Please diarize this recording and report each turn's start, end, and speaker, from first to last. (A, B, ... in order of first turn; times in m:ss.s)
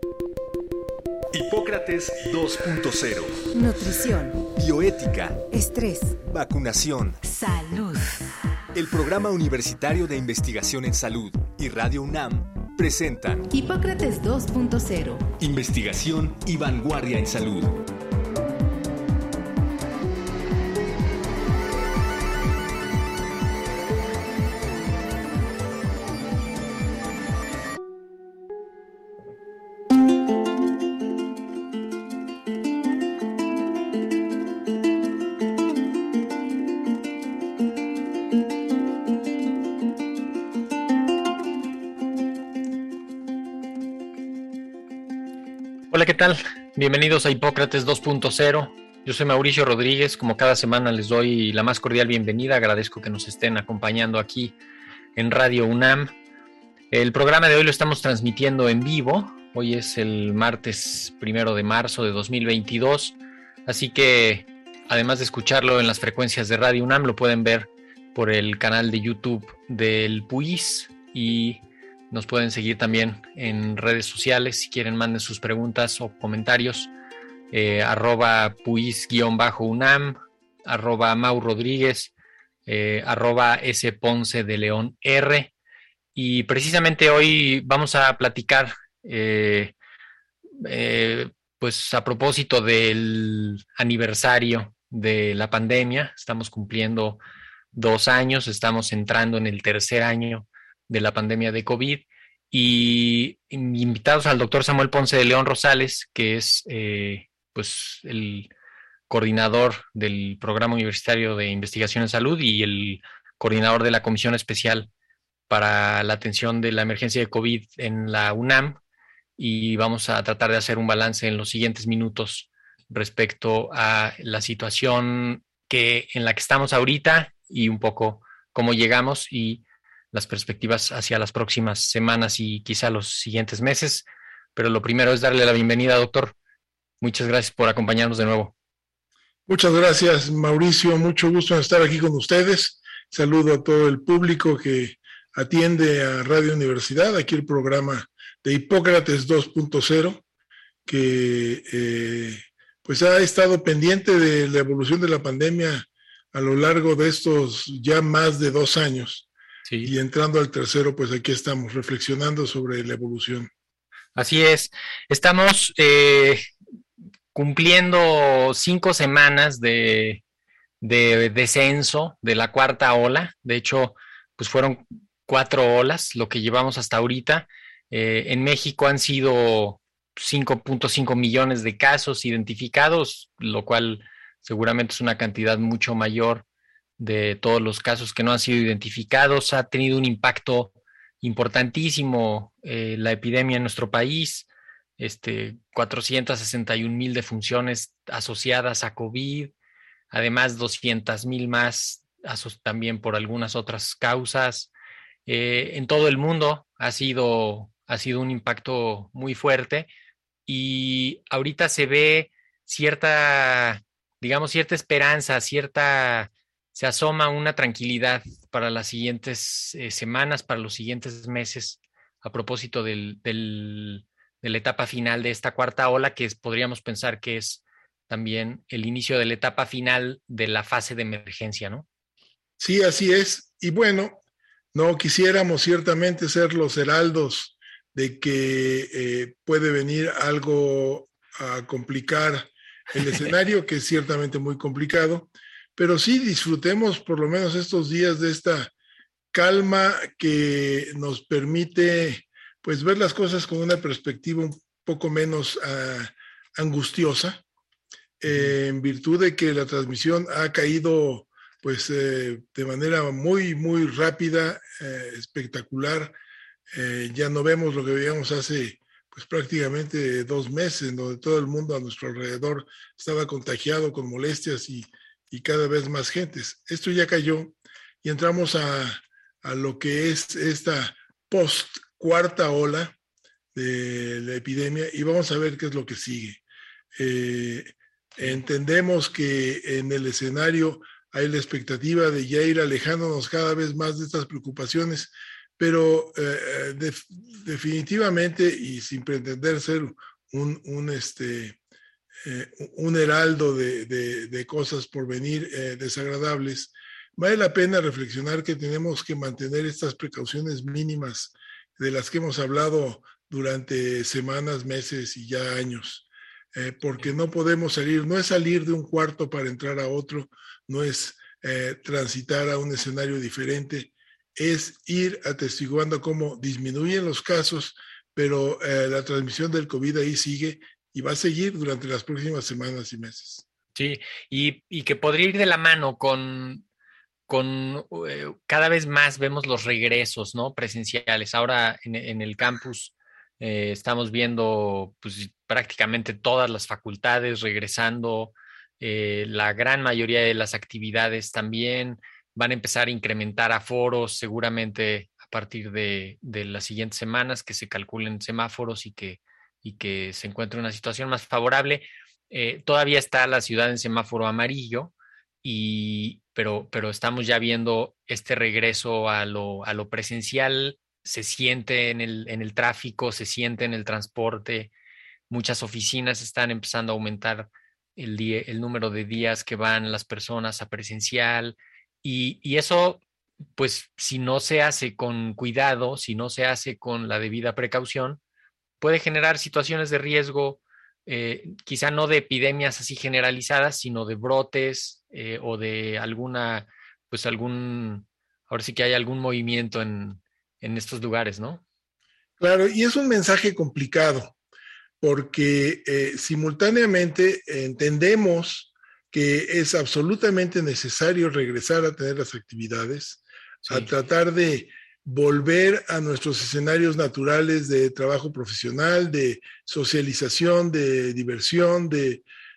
0:01.3-0:03.4 A
0:03.5-0:04.4 B
0:04.5-0:05.4 A
0:05.5-0:06.2 B
0:06.2-0:07.2 A
0:07.2-0:08.2 B
0:08.7-0:13.5 A
0:13.5-0:15.3 B
0:15.4-0:17.8 A
0:45.9-0:54.5 C
0:55.2-0:56.1 C
0:56.9-1:16.9 C
1:17.5-1:22.1 C
1:22.6-1:25.5 C
1:26.1-1:29.7 C
1:30.6-1:37.2 C
1:37.7-1:48.5 C
1:49.1-1:54.9 C
1:55.5-1:58.8 C
1:59.4-2:16.4 C
2:17.0-2:18.5 C
2:19.5-2:30.2 D
2:30.8-2:39.3 D
2:39.6-2:39.9 C
2:39.8-2:43.5 D
2:44.2-2:46.4 C
2:47.3-2:50.2 C
2:50.8-3:06.4 C
3:07.0-3:14.5 C
3:15.0-3:19.5 C
3:20.1-3:24.7 C
3:25.3-3:29.9 C
3:30.5-3:51.8 C
3:52.6-3:54.2 D
3:54.7-4:08.7 D
4:09.3-4:17.4 D
4:18.2-4:26.1 D
4:26.7-4:43.0 D
4:43.5-4:46.4 D
4:47.0-5:01.6 D
5:02.2-5:33.4 D
5:33.7-5:36.6 C
5:37.3-6:14.7 C
6:15.3-6:23.0 C
6:23.6-6:28.2 C
6:28.8-6:41.6 C
6:42.4-6:44.3 D
6:45.0-7:02.2 D